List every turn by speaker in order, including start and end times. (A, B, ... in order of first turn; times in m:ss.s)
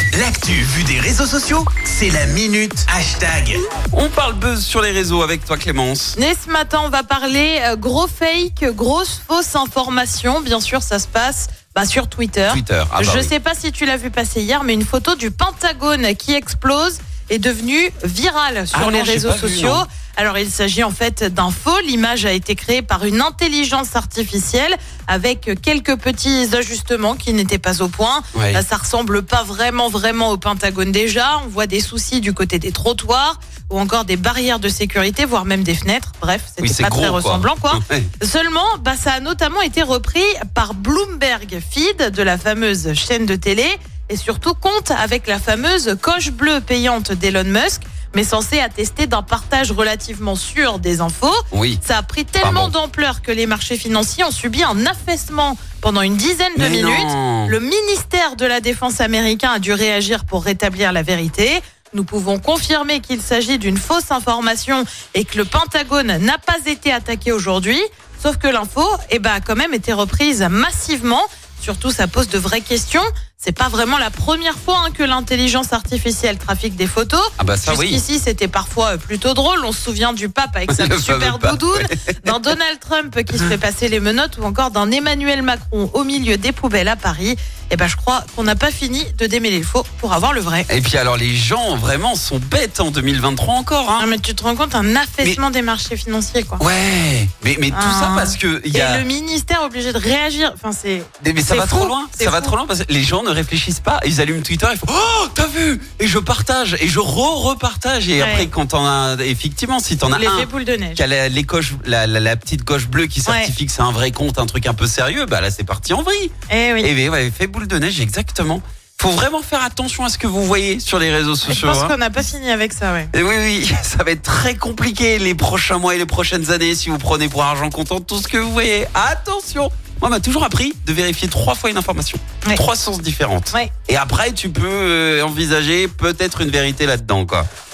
0:00.1-0:03.6 A
0:03.9-0:06.2 B
0:06.2-1:30.7 C
0:12.5-0:13.3 B
0:18.7-0:19.8 B
0:28.3-0:28.6 B
0:36.6-0:38.1 B
0:51.5-0:51.8 B
0:52.4-0:52.7 B
0:56.6-0:57.6 B
1:17.4-1:18.0 B
1:20.7-1:22.3 B
1:23.3-1:23.6 B
1:30.7-1:34.1 B
1:34.0-1:36.6 C
1:36.6-1:39.0 B
1:37.7-1:42.5 C
1:41.2-2:01.9 B
1:48.2-1:48.5 C
1:50.1-1:51.0 C
1:53.3-1:53.5 C
1:56.5-1:56.9 C
2:01.5-2:03.1 C
2:03.1-2:17.5 B